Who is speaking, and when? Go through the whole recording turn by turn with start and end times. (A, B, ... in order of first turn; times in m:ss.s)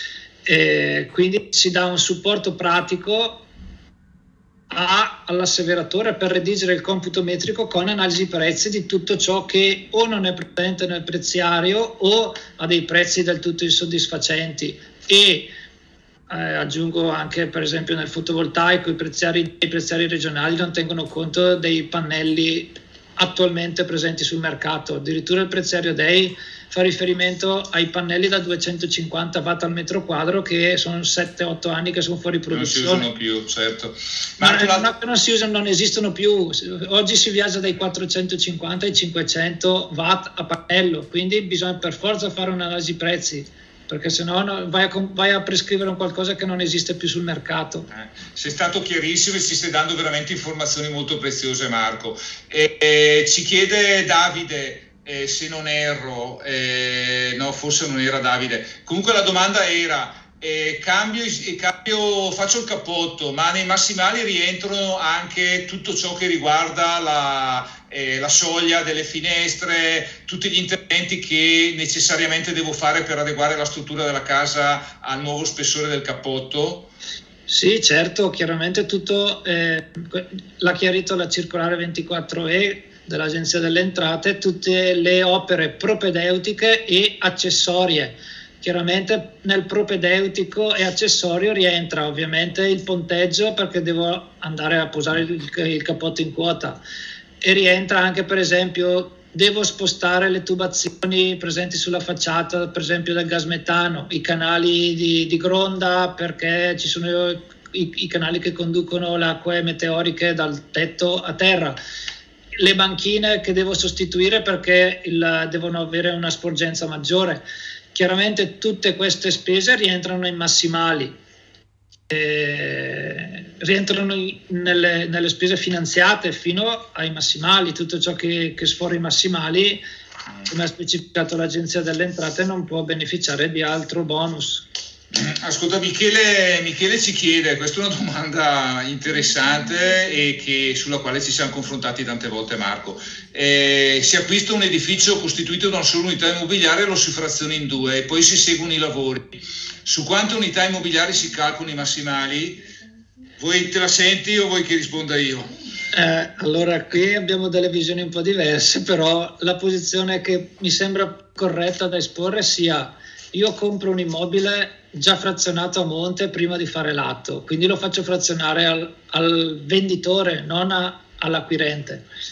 0:00.4-0:03.4 A
0:04.7-0:15.5 A
0:16.3-0:33.1 A
0:32.5-0:34.9 B
0:34.4-0:47.9 A
0:47.9-1:16.9 B
1:17.5-1:36.8 A
1:37.4-1:51.8 A
1:52.6-1:57.4 A
1:57.9-2:01.1 A
2:02.1-2:09.8 A
2:10.5-2:14.6 A
2:15.1-2:32.6 B
2:33.4-2:35.5 B
2:35.9-2:52.0 A